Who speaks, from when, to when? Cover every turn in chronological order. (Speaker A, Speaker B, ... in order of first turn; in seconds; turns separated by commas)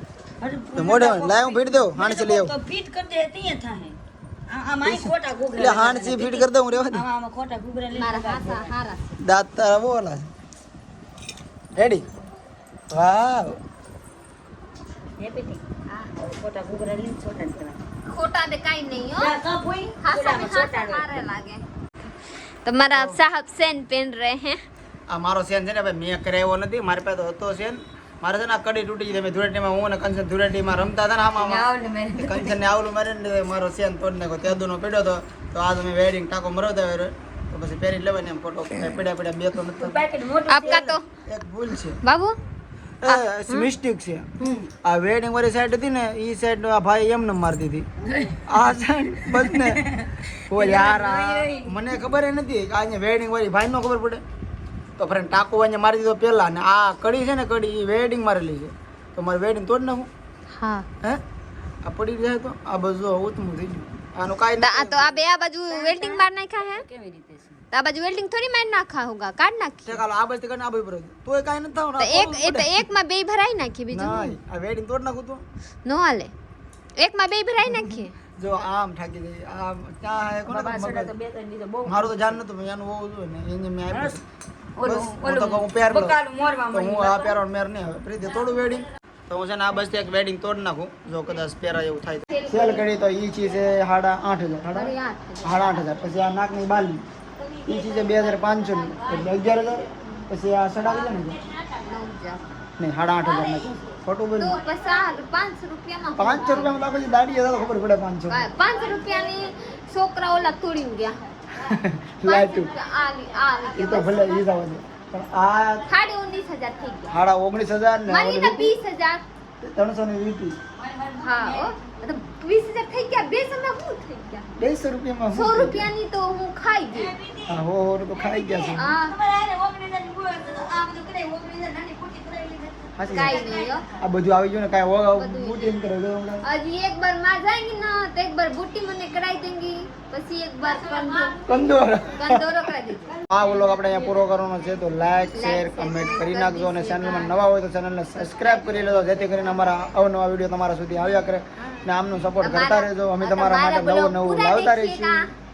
Speaker A: 0.4-4.0, Speaker B: 0.7-2.5, Speaker A: 4.5-8.7, Speaker B: 4.8-7.1, Speaker C: 7.9-9.2, Speaker B: 9.2-10.2, Speaker B: 11.8-12.1, Speaker B: 12.9-13.6, Speaker A: 15.2-15.6, Speaker A: 16.2-17.8, Speaker C: 18.1-19.4, Speaker A: 19.2-21.3, Speaker C: 20.0-21.6, Speaker C: 22.6-24.6, Speaker B: 22.9-23.2, Speaker B: 25.1-40.1, Speaker A: 31.3-32.6, Speaker A: 39.6-41.0, Speaker C: 40.5-41.0, Speaker B: 41.3-42.0, Speaker C: 42.0-42.4, Speaker B: 43.0-44.3, Speaker C: 43.0-43.7, Speaker A: 44.4-44.7, Speaker B: 44.8-47.9, Speaker A: 48.1-48.4, Speaker B: 48.5-49.8, Speaker A: 49.3-51.9, Speaker B: 50.5-54.2, Speaker B: 55.0-60.1, Speaker C: 60.5-60.9, Speaker B: 61.8-65.2, Speaker C: 64.6-66.8, Speaker A: 65.7-67.6, Speaker C: 67.7-70.0, Speaker B: 69.9-72.9, Speaker C: 72.0-74.4, Speaker B: 73.9-75.4, Speaker C: 75.8-76.3, Speaker C: 77.0-78.1, Speaker B: 78.4-81.1, Speaker A: 80.5-82.4, Speaker B: 81.8-84.2, Speaker A: 83.9-84.2, Speaker A: 84.8-87.4, Speaker B: 84.8-86.2, Speaker B: 86.7-97.0, Speaker C: 92.2-92.9, Speaker C: 94.7-95.8, Speaker A: 97.4-99.9, Speaker B: 97.7-101.4, Speaker A: 100.8-102.0, Speaker C: 101.8-102.4, Speaker B: 102.8-104.6, Speaker A: 103.2-104.0, Speaker C: 104.4-106.8, Speaker A: 104.6-105.2, Speaker B: 106.2-108.5, Speaker C: 108.3-111.2, Speaker A: 108.7-109.5, Speaker B: 111.6-112.7, Speaker C: 112.2-114.5, Speaker B: 113.7-115.9, Speaker C: 115.9-117.2, Speaker B: 117.1-118.8, Speaker C: 118.1-119.2, Speaker B: 119.6-120.6, Speaker A: 120.8-121.7, Speaker C: 121.2-124.5, Speaker B: 124.6-125.9, Speaker C: 125.3-127.1, Speaker A: 126.9-127.6, Speaker B: 127.5-128.9, Speaker A: 128.1-134.0, Speaker C: 128.8-129.2, Speaker B: 133.0-133.4, Speaker C: 133.1-133.8, Speaker B: 134.0-136.4, Speaker C: 135.2-135.8, Speaker C: 136.4-141.4, Speaker A: 140.6-141.8, Speaker B: 141.5-142.4, Speaker C: 142.1-143.1, Speaker A: 143.2-144.2, Speaker B: 143.3-155.3, Speaker C: 145.3-147.3, Speaker A: 148.4-149.4, Speaker C: 151.6-151.9, Speaker C: 152.4-155.3